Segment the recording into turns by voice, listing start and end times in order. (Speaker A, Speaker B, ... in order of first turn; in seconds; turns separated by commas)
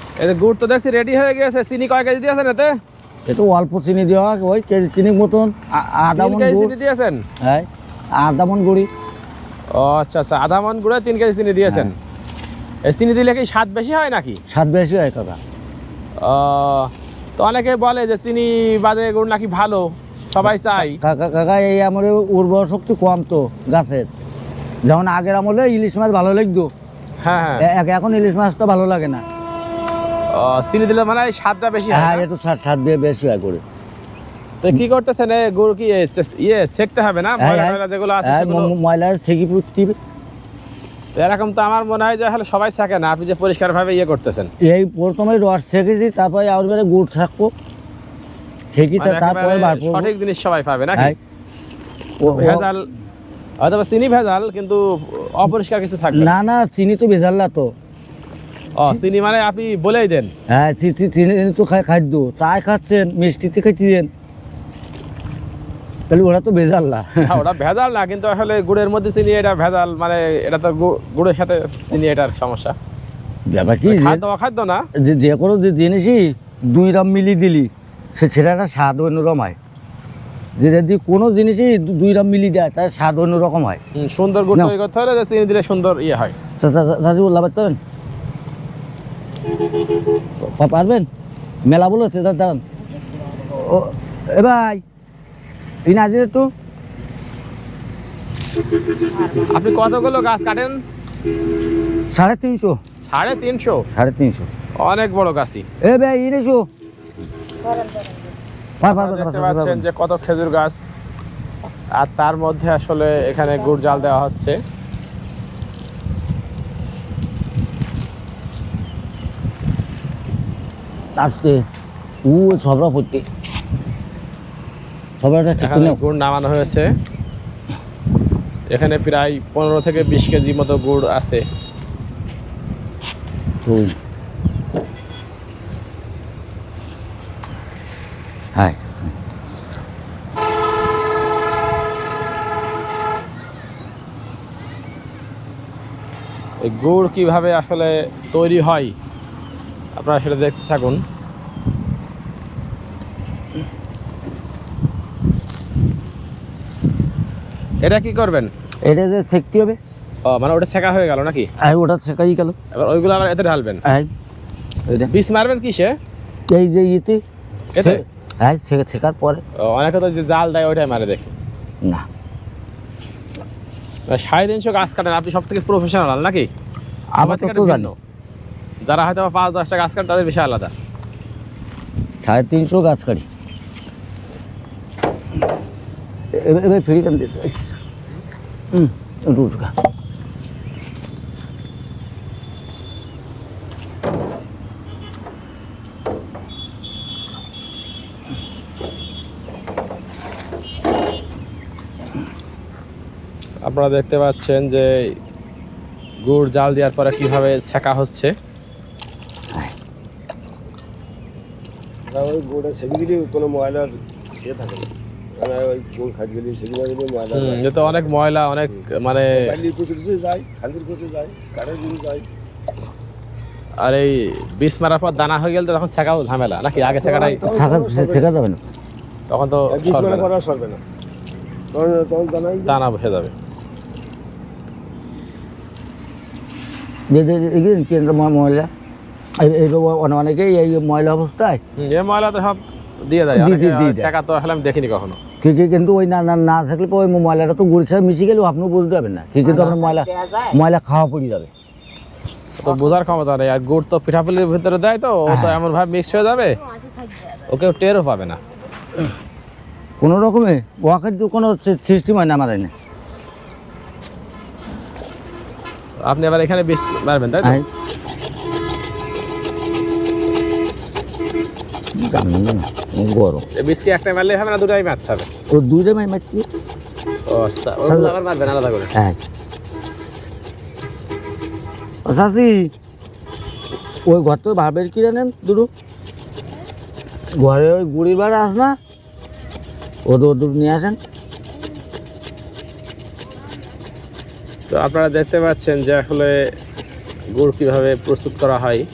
Speaker A: 0.2-2.7, Speaker B: 3.3-6.7, Speaker A: 6.2-7.2, Speaker B: 7.4-8.9, Speaker A: 9.7-11.9, Speaker B: 11.7-11.9, Speaker A: 12.9-14.4, Speaker B: 14.5-15.4, Speaker A: 16.2-21.0, Speaker B: 20.8-24.1, Speaker B: 24.9-26.7, Speaker A: 27.2-27.7, Speaker B: 27.6-29.2, Speaker A: 30.3-32.2, Speaker B: 31.9-33.6, Speaker A: 34.6-38.7, Speaker B: 37.4-40.0, Speaker A: 41.2-44.5, Speaker B: 44.6-47.5, Speaker B: 48.7-50.1, Speaker A: 49.0-51.1, Speaker B: 52.2-52.7, Speaker A: 52.3-52.9, Speaker A: 53.6-56.3, Speaker B: 56.1-57.7, Speaker A: 58.8-60.3, Speaker B: 60.5-64.1, Speaker B: 66.1-67.4, Speaker A: 67.2-72.8, Speaker B: 73.5-74.2, Speaker A: 73.9-74.8, Speaker B: 75.0-79.6, Speaker B: 80.6-83.8, Speaker A: 84.0-86.3, Speaker B: 86.6-87.8, Speaker B: 90.4-91.1, Speaker B: 91.7-92.6, Speaker B: 93.4-94.8, Speaker B: 95.9-96.5, Speaker A: 99.4-100.8, Speaker B: 102.1-102.8, Speaker A: 103.0-103.9, Speaker B: 103.9-104.5, Speaker A: 104.8-105.7, Speaker B: 105.8-106.6, Speaker B: 108.8-109.9, Speaker A: 108.8-110.8, Speaker A: 112.0-114.6, Speaker B: 121.2-121.6, Speaker B: 122.3-123.3, Speaker B: 125.2-126.0, Speaker A: 125.6-126.9, Speaker A: 128.7-131.4, Speaker B: 133.6-134.0, Speaker B: 138.6-139.1, Speaker A: 146.6-148.9, Speaker A: 149.9-151.0, Speaker A: 157.8-158.5, Speaker B: 158.8-159.8, Speaker A: 160.2-161.5, Speaker B: 161.6-162.6, Speaker A: 162.7-163.8, Speaker B: 163.8-164.1, Speaker A: 165.1-166.0, Speaker B: 166.5-167.2, Speaker A: 167.8-168.0, Speaker B: 167.8-169.4, Speaker A: 169.6-171.3, Speaker A: 174.1-176.5, Speaker B: 177.2-177.9, Speaker A: 177.2-178.0, Speaker A: 178.8-180.7, Speaker B: 182.2-183.2, Speaker B: 186.3-187.6, Speaker B: 188.7-189.7, Speaker A: 203.6-204.9, Speaker A: 206.2-208.3, Speaker C: 212.1-217.9, Speaker A: 217.3-219.5, Speaker C: 219.4-222.3, Speaker A: 223.8-227.4, Speaker C: 226.8-228.2, Speaker B: 227.4-228.6, Speaker A: 229.3-230.3, Speaker C: 229.7-230.8, Speaker C: 231.7-232.8, Speaker A: 232.7-233.3, Speaker B: 237.1-238.7, Speaker B: 239.4-241.6, Speaker A: 241.8-245.2, Speaker B: 243.3-244.1, Speaker B: 245.4-251.5, Speaker A: 249.5-249.8, Speaker A: 252.6-256.6, Speaker B: 255.3-255.6, Speaker A: 257.5-258.4, Speaker B: 260.0-262.7, Speaker A: 266.0-267.6, Speaker B: 272.0-273.4, Speaker A: 273.6-275.3, Speaker B: 275.5-276.5, Speaker A: 277.3-278.9, Speaker B: 277.9-278.1, Speaker B: 282.1-282.7, Speaker B: 284.1-285.7, Speaker B: 287.4-288.8, Speaker B: 290.1-291.0, Speaker A: 294.7-296.4, Speaker A: 297.3-298.9